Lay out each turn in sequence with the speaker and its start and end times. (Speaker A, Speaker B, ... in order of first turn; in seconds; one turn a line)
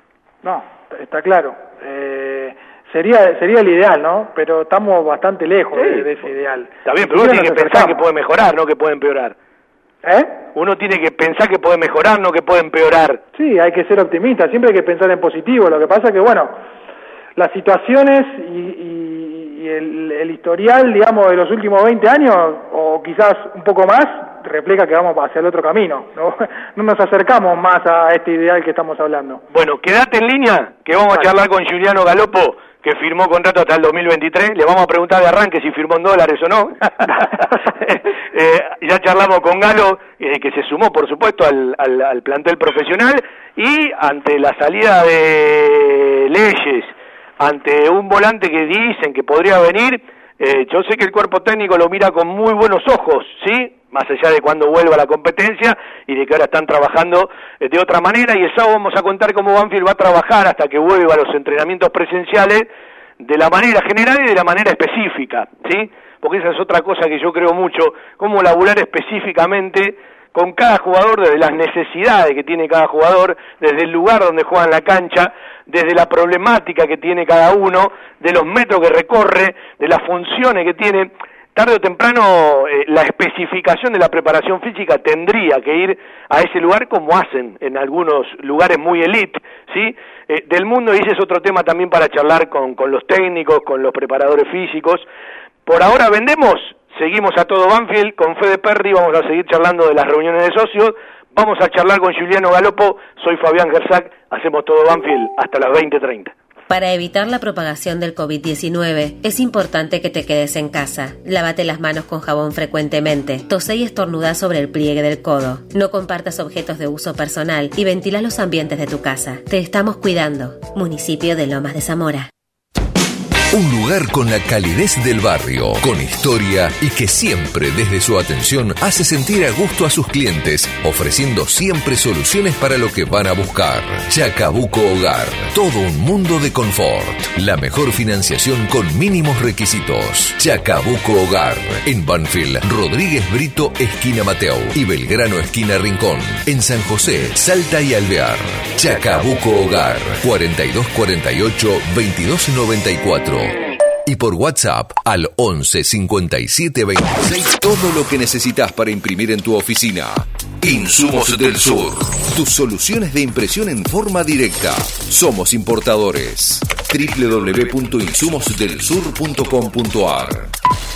Speaker A: 0.4-8.0
Speaker B: 5.7-6.1
Speaker B: 6.8-9.3
Speaker A: 10.0-10.4
Speaker B: 10.5-13.2
Speaker A: 13.3-16.5
Speaker A: 17.4-29.4
Speaker B: 29.5-62.7
Speaker B: 63.2-95.1
Speaker B: 95.7-106.3
Speaker C: 106.7-122.3
Speaker D: 123.5-170.5